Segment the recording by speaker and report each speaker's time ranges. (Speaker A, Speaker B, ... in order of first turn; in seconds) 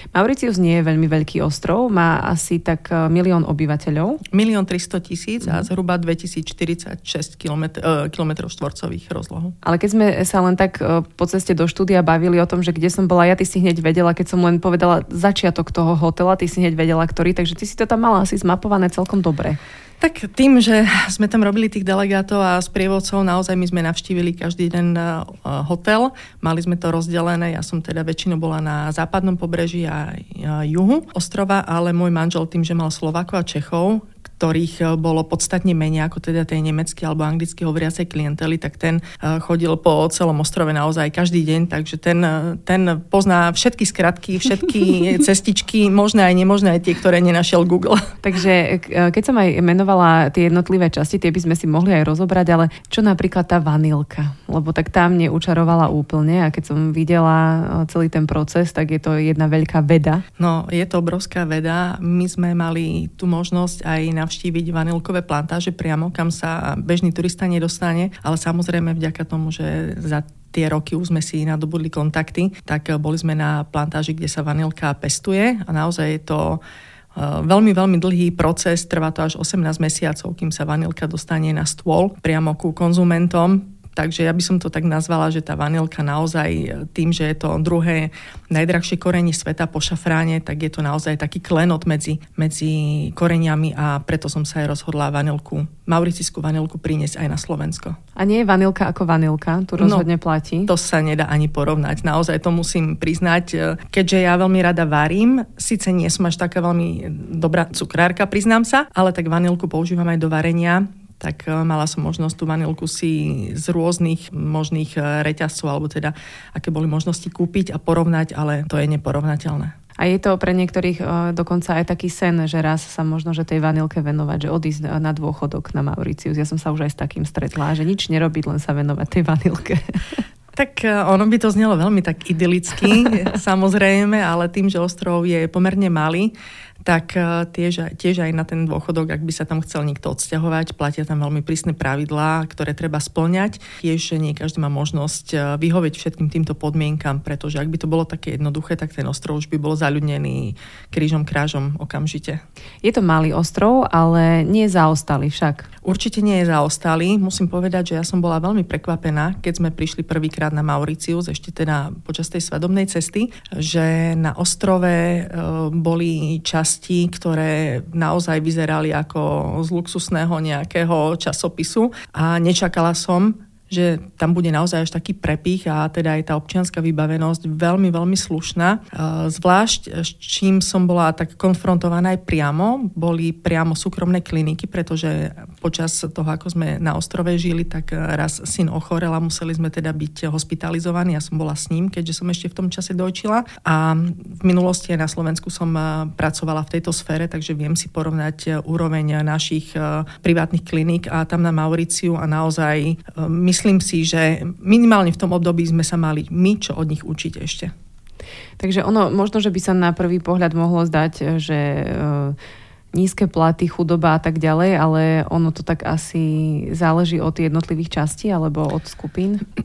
Speaker A: 0.1-4.2, 9.6-19.6, 48.2-60.2, 98.2-100.7, 120.0-130.2, 152.8-155.7, 208.6-212.3, 212.9-219.4
Speaker B: 4.3-9.6, 20.0-48.1, 60.4-76.6, 77.1-98.0, 99.8-100.0, 100.7-119.7, 130.5-152.4, 155.8-207.7